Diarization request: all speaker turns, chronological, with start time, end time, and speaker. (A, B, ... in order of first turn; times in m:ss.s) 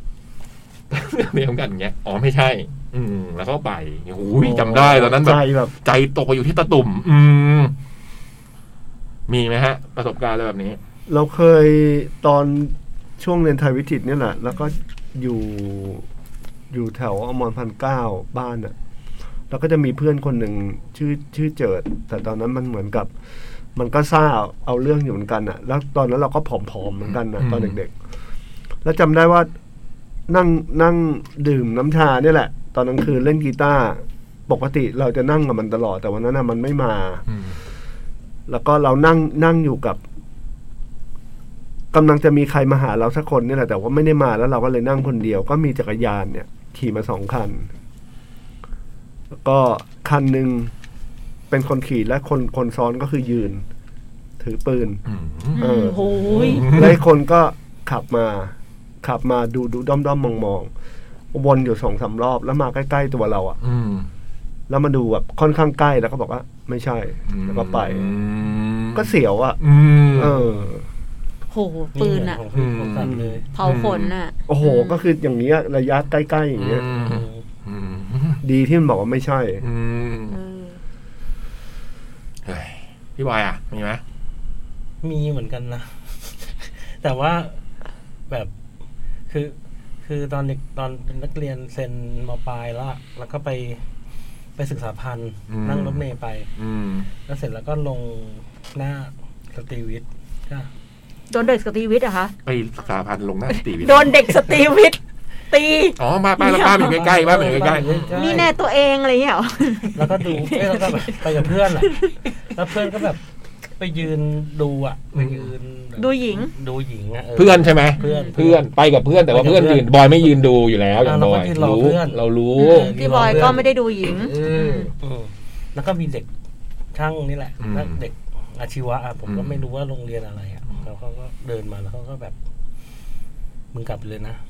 0:00.9-0:07.7 A
0:04.4-0:05.7 B
0:09.3-0:10.8 A
0:11.1-0:16.1 B
0:16.7-0:18.8 B
0:19.5-0:23.1 B
0:23.8-0:27.9 B
0:27.4-0:27.8 A
0:28.8-0:29.5 B
0:30.3-0:37.2 B
0:37.3-0:37.6 A
0:38.5-0:40.0 B
0:41.9-0:47.7 B
0:49.3-0:50.7 B
0:51.5-0:53.6 B
0:54.4-0:55.0 B
0:55.1-0:55.6 A
0:55.6-0:56.7 C
0:55.6-1:00.7 B
0:56.3-0:57.0 A
1:01.3-1:03.6 B
1:03.6-1:04.1 A
1:04.7-1:08.1 B
1:07.3-1:10.4 A
1:08.9-1:09.6 B
1:10.1-1:10.9 B
1:11.5-1:12.4 C
1:12.0-1:13.4 D
1:12.5-1:14.1 A
1:13.0-1:13.4 B
1:13.6-1:15.1 C
1:14.5-1:16.8 B
1:16.6-1:18.4 A
1:16.9-1:17.4 D
1:18.4-1:19.6 B
1:19.6-1:20.4 A
1:20.3-1:20.8 C
1:22.5-1:24.0 A
1:25.0-1:27.6 D
1:29.3-1:33.8 D
1:34.6-1:36.5 D
1:35.5-1:36.0 A
1:36.6-1:37.1 A
1:37.2-1:40.7 D
1:41.3-1:42.3 C
1:42.5-1:44.2 A
1:43.8-1:45.0 C
1:45.5-1:51.3 C
1:46.0-1:48.4 A
1:47.0-1:48.5 D
1:50.0-1:52.0 D
1:51.8-1:52.1 C
1:52.5-1:53.2 D
1:53.8-1:58.6 D
1:55.2-1:55.5 A
1:56.0-1:56.5 C
1:57.4-2:03.5 A
1:58.0-1:58.4 C
1:59.3-1:59.8 D
2:01.0-2:03.6 D
2:02.6-2:04.9 C
2:04.3-2:04.9 A
2:05.0-2:06.3 D
2:06.9-2:12.4 D
2:07.6-2:08.0 A
2:09.3-2:09.6 A
2:13.7-2:14.4 D